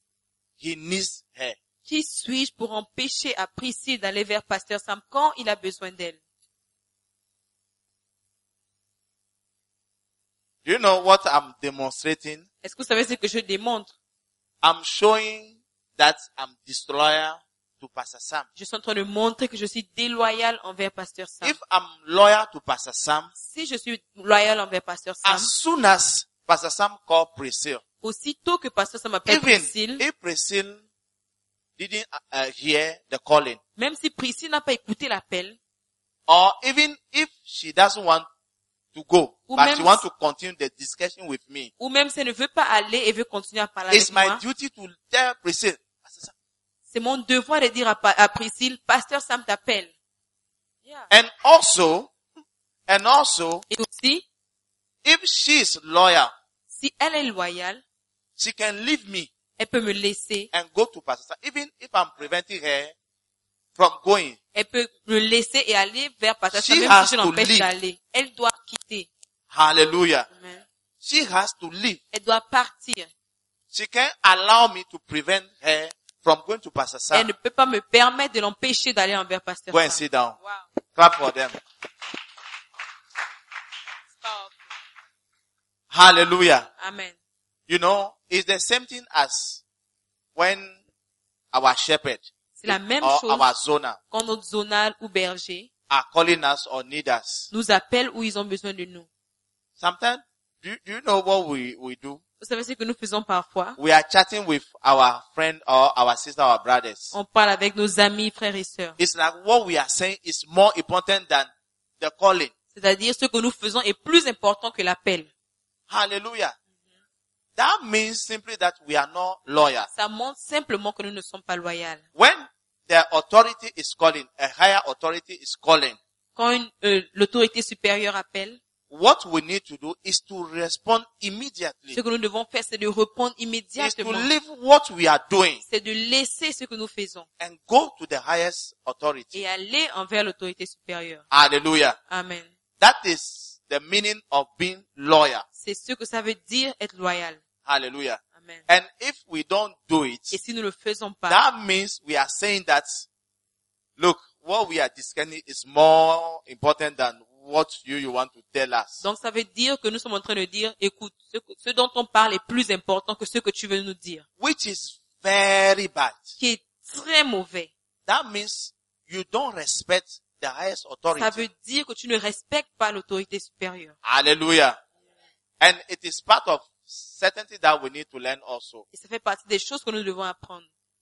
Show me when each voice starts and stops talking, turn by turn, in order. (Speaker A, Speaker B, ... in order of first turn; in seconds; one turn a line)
Speaker A: 0.6-1.6
Speaker B: 1.9-6.2
Speaker A: 10.7-12.5
Speaker B: 12.6-13.9
Speaker A: 14.6-18.5
Speaker B: 18.6-21.6
Speaker A: 21.4-23.3
Speaker B: 23.4-25.5
Speaker A: 25.2-27.8
Speaker B: 28.0-30.0
Speaker A: 29.3-30.8
Speaker A: 31.8-33.6
Speaker B: 33.8-35.6
Speaker A: 36.3-38.3
Speaker A: 38.9-41.7
Speaker B: 39.5-40.0
Speaker B: 41.8-44.4
Speaker A: 43.9-46.3
Speaker B: 46.9-49.9
Speaker B: 50.9-51.1
Speaker A: 51.1-52.1
Speaker A: 52.9-53.7
Speaker B: 53.7-54.2
Speaker A: 55.0-56.3
Speaker B: 56.7-57.8
Speaker A: 58.4-59.3
Speaker B: 59.6-60.5
Speaker A: 60.5-62.9
Speaker A: 63.8-64.4
Speaker B: 64.5-69.1
Speaker A: 66.5-67.7
Speaker A: 69.5-70.3
Speaker B: 70.3-70.7
Speaker A: 71.0-72.0
Speaker B: 72.1-73.1
Speaker A: 73.7-77.3
Speaker B: 77.1-80.7
Speaker A: 79.7-80.4
Speaker A: 81.0-81.6
Speaker B: 84.1-84.6
Speaker A: 85.9-86.7
Speaker B: 86.8-87.2
Speaker A: 87.7-89.6
Speaker A: 90.3-90.8
Speaker A: 91.5-94.0
Speaker B: 92.6-93.5
Speaker B: 94.1-95.7
Speaker A: 95.9-97.5
Speaker B: 97.5-99.1
Speaker A: 99.8-102.2
Speaker B: 102.4-103.8
Speaker A: 103.8-107.1
Speaker B: 107.1-109.0
Speaker A: 109.0-112.5
Speaker B: 112.7-115.3
Speaker A: 115.9-116.6
Speaker A: 117.6-119.9
Speaker B: 119.9-122.0
Speaker A: 122.2-126.0
Speaker B: 126.3-128.6
Speaker A: 128.9-132.0
Speaker B: 131.9-134.3
Speaker A: 133.8-135.6
Speaker B: 135.7-137.3
Speaker A: 137.4-139.3
Speaker B: 139.3-141.2
Speaker A: 141.3-142.0
Speaker B: 142.1-142.5
Speaker A: 142.8-145.4
Speaker B: 145.6-147.4
Speaker A: 147.7-150.4
Speaker B: 148.4-148.7
Speaker B: 150.3-151.4
Speaker A: 151.3-153.1
Speaker A: 154.0-159.0
Speaker B: 159.0-164.2
Speaker A: 164.4-166.4
Speaker B: 166.4-167.7
Speaker A: 168.1-171.4
Speaker B: 171.2-173.9
Speaker A: 174.0-174.8
Speaker A: 175.6-178.9
Speaker B: 178.9-180.7